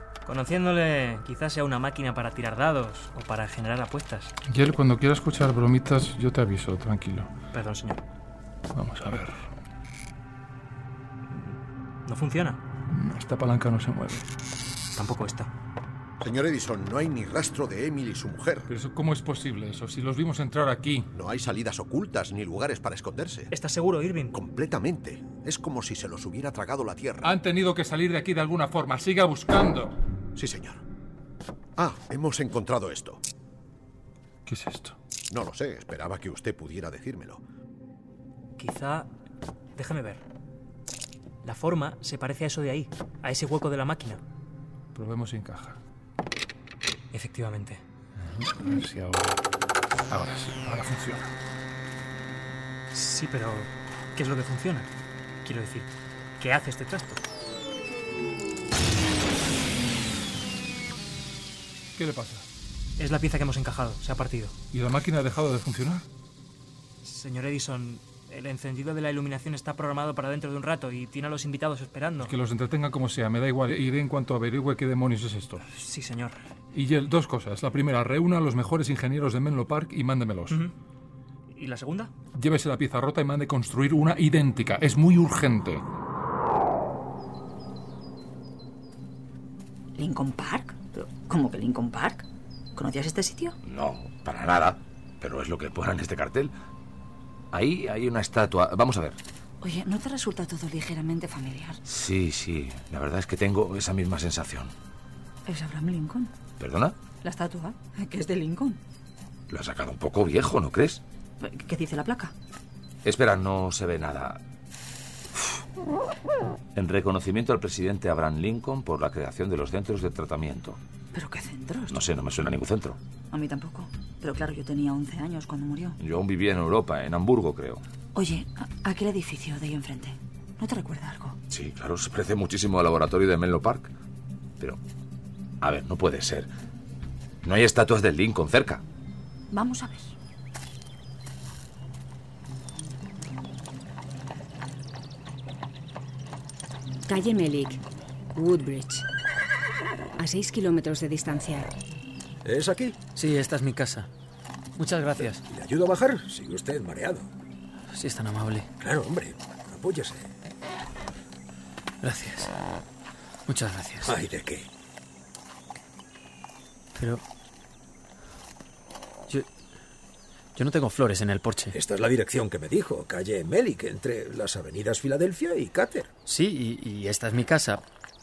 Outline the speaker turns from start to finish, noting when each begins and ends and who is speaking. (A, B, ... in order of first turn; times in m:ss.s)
0:00.2-0:04.3 A
0:04.5-0:07.3 B
0:07.5-0:08.0 A
0:08.7-0:09.5 B
0:12.1-0:12.6 A
0:12.9-0:14.3 B
0:15.0-0:15.5 A
0:16.2-0:18.7 C
0:18.7-0:21.1 B
0:21.1-0:23.5 C
0:23.5-0:24.4 A
0:24.3-0:27.4 C
0:27.2-0:30.0 B
0:30.4-0:30.8 C
0:31.8-0:33.2 C
0:34.5-0:35.0 B
0:35.3-0:37.4 C
0:38.6-0:39.1 A
0:39.8-0:40.2 A
0:41.4-0:44.2 A
0:45.0-0:45.8 B
0:47.1-0:47.8 A
0:48.3-0:49.4 B
0:50.1-0:51.3 B
0:52.9-0:54.9 A
0:55.4-0:57.2 A
1:02.0-1:02.4 B
1:03.0-1:04.5 A
1:04.7-1:06.1 B
1:07.0-1:12.3 A
1:12.3-1:15.6 B
1:15.7-1:16.4 A
1:16.7-1:20.6 B
1:20.5-1:20.7 A
1:21.5-1:22.1 A
1:22.3-1:25.8 B
1:30.0-1:33.6 D
1:33.6-1:36.5 E
1:37.5-1:39.2 E
1:39.6-1:41.8 D
1:41.9-1:44.7 E
1:45.5-1:46.3 D
1:46.6-1:47.0 E
1:47.2-1:48.8 D
1:49.5-1:51.0 E
1:51.4-1:52.3 D
1:53.0-1:54.4 E
1:56.8-2:00.8 E
2:01.1-2:02.0 D
2:01.9-2:03.0 E
2:03.3-2:06.0 D
2:06.0-2:07.8 E
2:08.2-2:11.4 D
2:11.5-2:13.9 E
2:15.6-2:16.5 E
2:17.4-2:18.8 E
2:19.5-2:20.1 D
2:27.1-2:27.8 F
2:28.4-2:29.0 F
2:30.2-2:31.7 F
2:32.4-2:33.0 G
2:33.1-2:34.1 H
2:34.8-2:35.4 H
2:35.2-2:37.3 G
2:37.9-2:38.7 H
2:38.8-2:40.3 G
2:42.0-2:42.5 H
2:43.5-2:44.2 H
2:44.0-2:44.7 G
2:47.0-2:47.2 H
2:50.6-2:51.8 H
2:51.7-2:56.1 G
2:56.2-2:57.8 H